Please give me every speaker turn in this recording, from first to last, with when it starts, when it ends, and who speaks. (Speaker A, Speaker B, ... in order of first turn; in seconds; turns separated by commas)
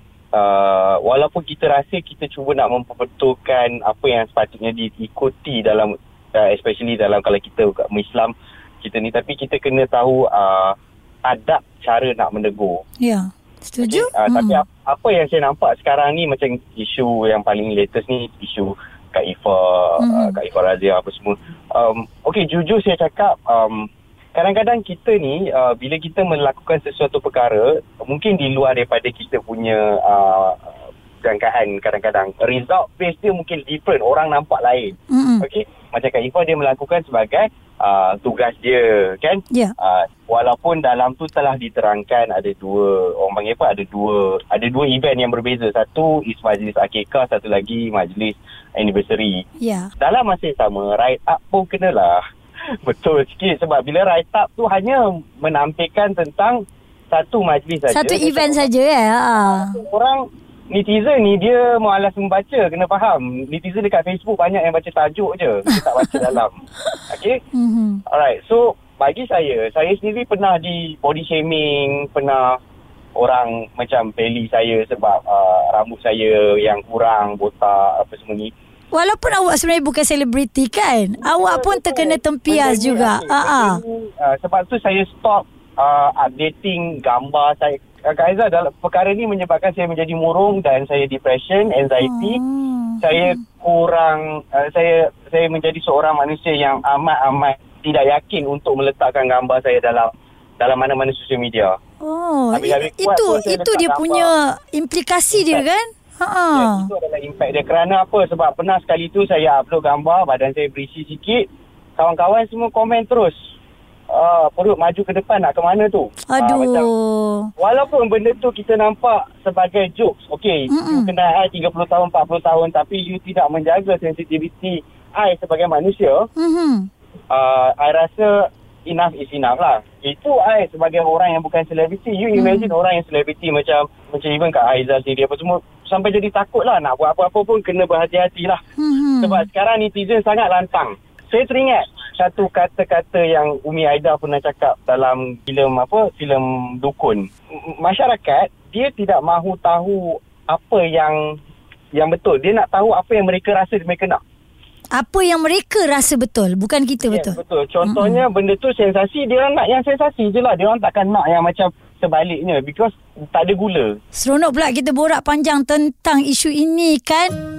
Speaker A: 0.3-12.8, Speaker B: 13.0-14.6, Speaker A: 13.8-49.4, Speaker B: 20.0-20.3, Speaker B: 35.1-35.4, Speaker B: 49.6-49.9, Speaker A: 50.0-52.2, Speaker A: 52.8-58.7, Speaker B: 57.9-59.8, Speaker A: 59.4-67.4, Speaker B: 65.8-66.2, Speaker B: 67.5-68.0, Speaker A: 68.1-72.6, Speaker A: 73.2-78.5, Speaker B: 78.9-83.8, Speaker A: 81.2-92.4, Speaker B: 92.0-93.4, Speaker A: 93.0-101.8, Speaker B: 102.0-106.9, Speaker A: 102.5-104.3, Speaker A: 105.3-105.6, Speaker A: 106.5-113.5, Speaker A: 114.1-116.9, Speaker B: 116.3-117.5, Speaker A: 117.6-126.3, Speaker B: 120.7-121.1, Speaker B: 126.4-126.9, Speaker A: 127.3-138.6, Speaker B: 132.3-132.7, Speaker B: 138.8-139.5, Speaker A: 139.2-151.4, Speaker A: 151.9-154.2, Speaker B: 154.9-158.2, Speaker A: 157.0-164.0, Speaker B: 164.1-167.3